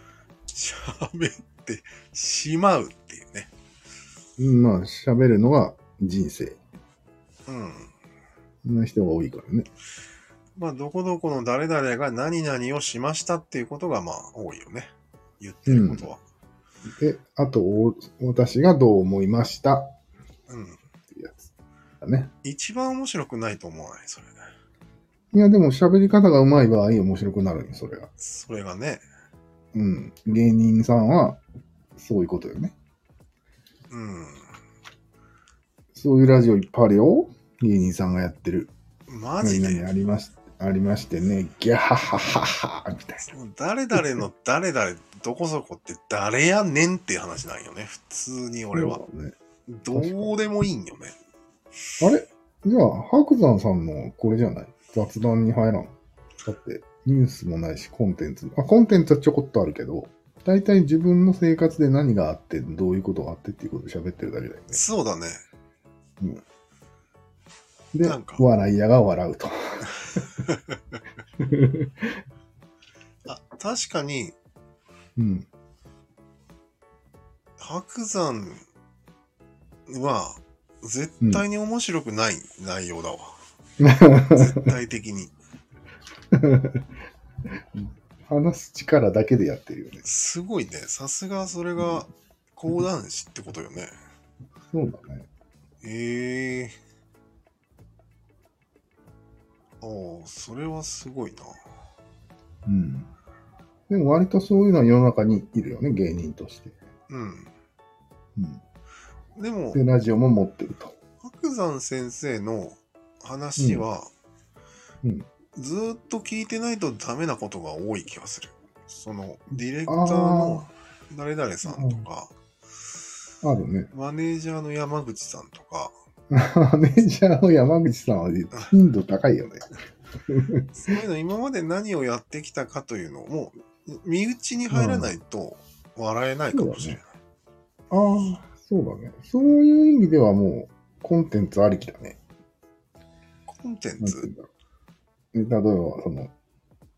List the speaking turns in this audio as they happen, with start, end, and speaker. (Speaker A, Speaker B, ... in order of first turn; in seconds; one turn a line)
Speaker A: 0.5-3.5
Speaker B: 4.4-6.6
Speaker A: 7.5-7.9
Speaker B: 8.6-9.7
Speaker A: 10.6-16.2
Speaker B: 15.7-16.1
Speaker B: 16.9-19.9
Speaker A: 20.5-20.8
Speaker B: 21.1-21.5
Speaker B: 22.0-22.3
Speaker A: 22.4-24.4
Speaker B: 25.3-28.1
Speaker A: 28.2-29.0
Speaker B: 29.7-31.4
Speaker B: 31.9-32.7
Speaker A: 33.9-34.5
Speaker B: 35.9-38.7
Speaker A: 39.1-39.9
Speaker B: 39.4-43.3
Speaker A: 43.3-49.0
Speaker B: 48.7-49.4
Speaker A: 49.7-51.1
Speaker B: 49.9-50.3
Speaker B: 52.0-64.8
Speaker A: 64.7-65.4
Speaker B: 67.9-70.2
Speaker A: 68.0-68.4
Speaker A: 70.1-70.8
Speaker B: 71.4-72.2
Speaker A: 73.3-74.3
Speaker B: 75.2-75.5
Speaker A: 77.6-78.6
Speaker A: 79.9-83.4
Speaker B: 83.8-84.7
Speaker A: 84.3-85.3
Speaker B: 86.3-86.8
Speaker B: 87.7-90.0
Speaker A: 90.0-93.9
Speaker B: 94.7-95.3
Speaker A: 95.8-96.8
Speaker A: 99.8-101.6
Speaker B: 102.7-103.1
Speaker B: 103.9-106.8
Speaker A: 107.1-107.5
Speaker B: 108.4-108.6
Speaker A: 109.4-109.8
Speaker B: 109.7-111.0
Speaker A: 111.2-114.1
Speaker B: 113.6-113.9
Speaker A: 115.5-122.3
Speaker B: 119.9-120.7
Speaker B: 121.7-122.0
Speaker B: 123.4-123.9
Speaker A: 123.9-126.0
Speaker B: 126.3-129.7
Speaker B: 130.3-130.7
Speaker A: 130.7-137.1
Speaker B: 134.7-135.2
Speaker B: 136.5-137.0
Speaker B: 137.9-142.2
Speaker A: 143.5-144.3
Speaker B: 144.0-144.5
Speaker B: 145.3-146.3